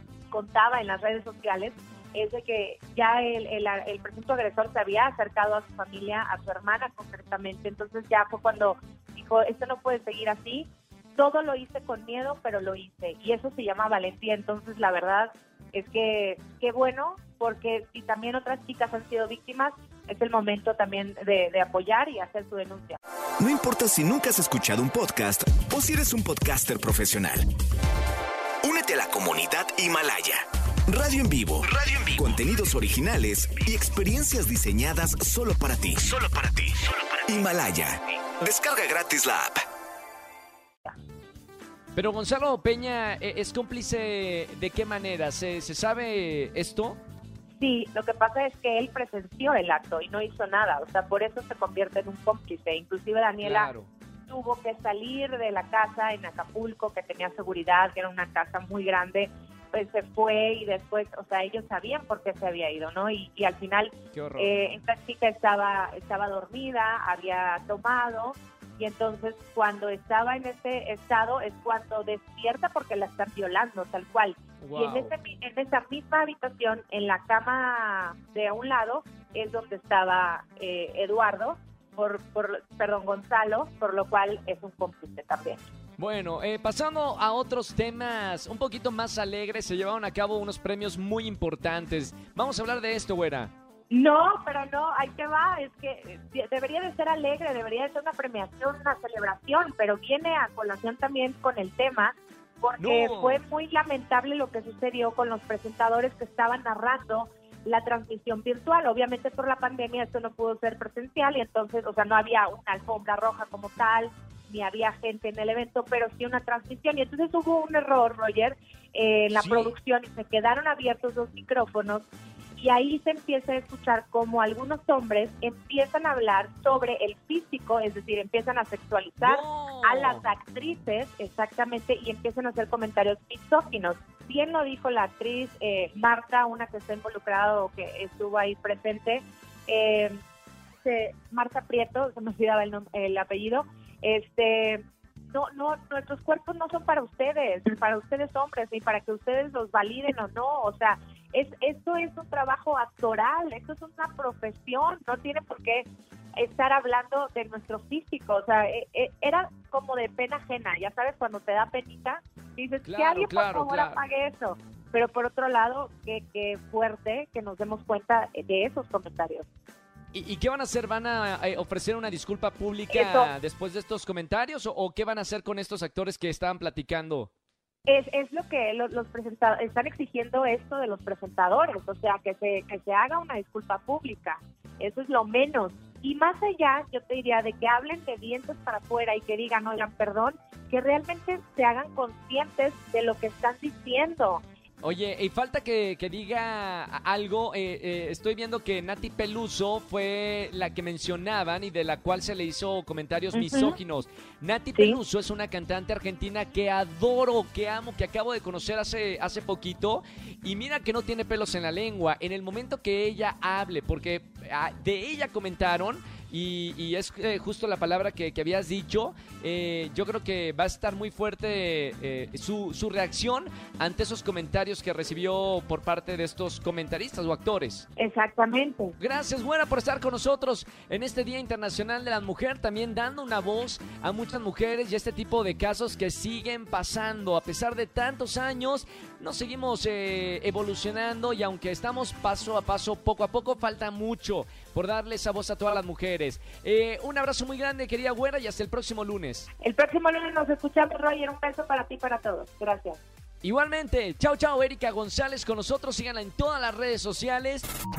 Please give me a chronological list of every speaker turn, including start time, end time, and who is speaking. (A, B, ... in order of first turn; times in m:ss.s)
0:00.3-0:23.0 A
0:23.4-0:27.5 B
0:28.6-0:39.6 B
0:41.9-0:47.0 C
0:47.6-0:53.7 A
0:53.4-0:53.9 C
0:54.3-1:25.6 A
1:04.1-1:04.7 C
1:14.6-1:15.1 C
1:26.0-1:33.5 C
1:33.9-2:02.0 A
1:42.8-1:43.4 C
1:59.3-1:59.7 C
2:02.6-2:20.2 A
2:09.2-2:10.2 C
2:20.8-2:35.9 A
2:36.4-2:49.4 A
2:42.8-2:44.0 C
2:50.1-2:57.3 C
2:52.9-2:53.3 A
2:57.9-3:14.4 A
3:14.8-3:47.9 C
3:23.3-3:23.8 A
3:48.0-3:48.9 A
3:49.0-4:09.5 C
4:09.6-4:13.0 A
4:13.4-4:17.6 C